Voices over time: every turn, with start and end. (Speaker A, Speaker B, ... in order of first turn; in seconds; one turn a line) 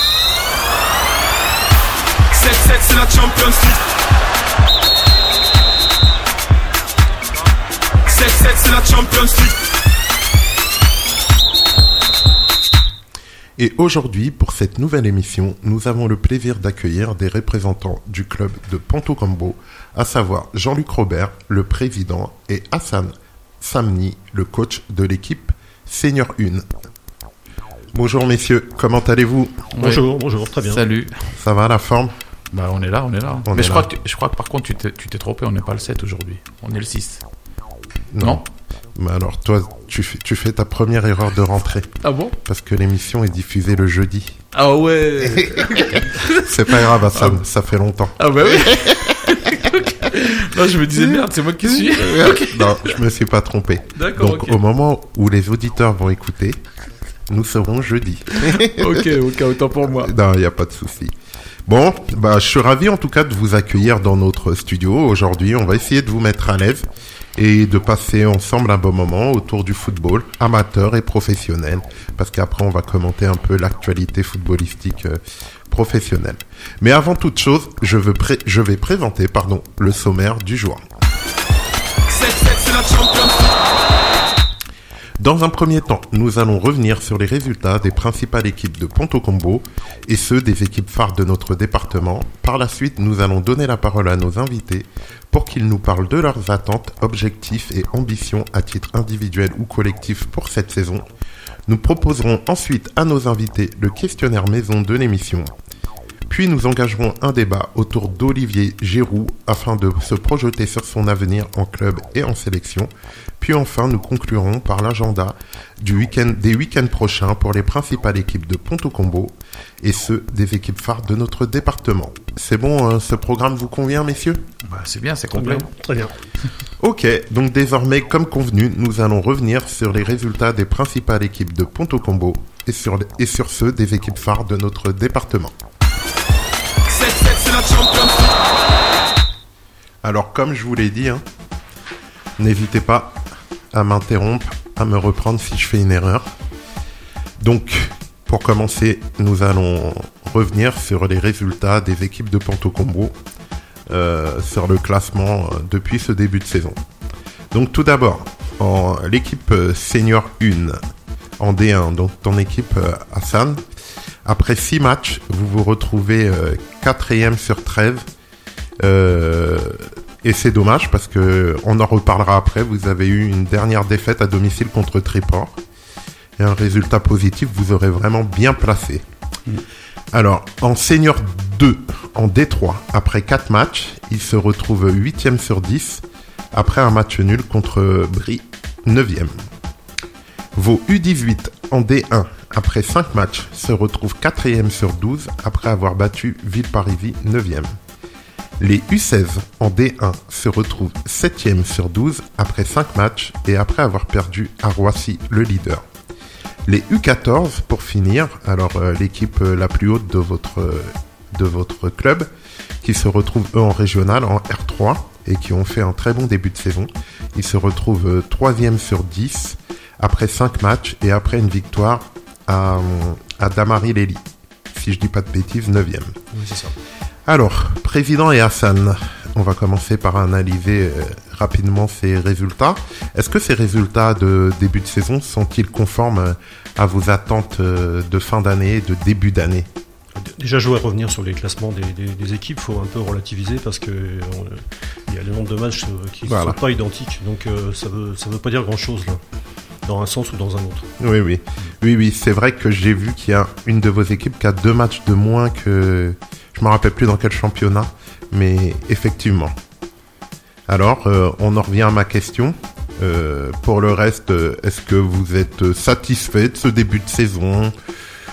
Speaker A: 2.3-3.8
Speaker A: 8.1-9.5
Speaker B: 13.6-26.7
Speaker B: 27.9-29.7
Speaker C: 29.7-31.2
Speaker D: 29.8-30.9
Speaker B: 31.3-32.2
Speaker C: 32.5-37.2
Speaker B: 33.5-33.9
Speaker B: 38.1-44.4
Speaker C: 42.0-42.4
Speaker C: 44.5-47.4
Speaker B: 45.2-49.9
Speaker C: 48.2-53.0
Speaker B: 50.9-56.6
Speaker C: 54.0-54.6
Speaker B: 57.3-59.2
Speaker C: 58.3-60.1
Speaker B: 59.9-61.1
Speaker B: 61.7-80.8
Speaker A: 82.1-83.5
Speaker B: 85.2-101.1
Speaker B: 101.7-105.5
Speaker B: 106.3-124.4
Speaker C: 124.7-125.7
Speaker D: 125.3-126.2
Speaker B: 126.8-135.6
Speaker A: 136.9-138.2
Speaker B: 140.0-141.2
Speaker B: 142.4-143.2
Speaker B: 143.7-146.3
Speaker B: 147.4-153.2
Speaker B: 153.9-156.8
Speaker B: 157.5-160.8
Speaker B: 161.4-163.7
Speaker B: 164.2-168.1
Speaker B: 168.8-175.6
Speaker B: 176.4-179.0
Speaker B: 180.1-189.5
Speaker B: 190.6-197.8
Speaker B: 198.6-205.8
Speaker B: 206.7-212.3
Speaker B: 212.8-226.2
Speaker D: 226.3-226.8
Speaker B: 227.3-239.7
Speaker D: 240.2-249.2
Speaker B: 246.2-246.6
Speaker D: 249.8-250.9
Speaker B: 251.0-259.6
Speaker B: 260.7-267.8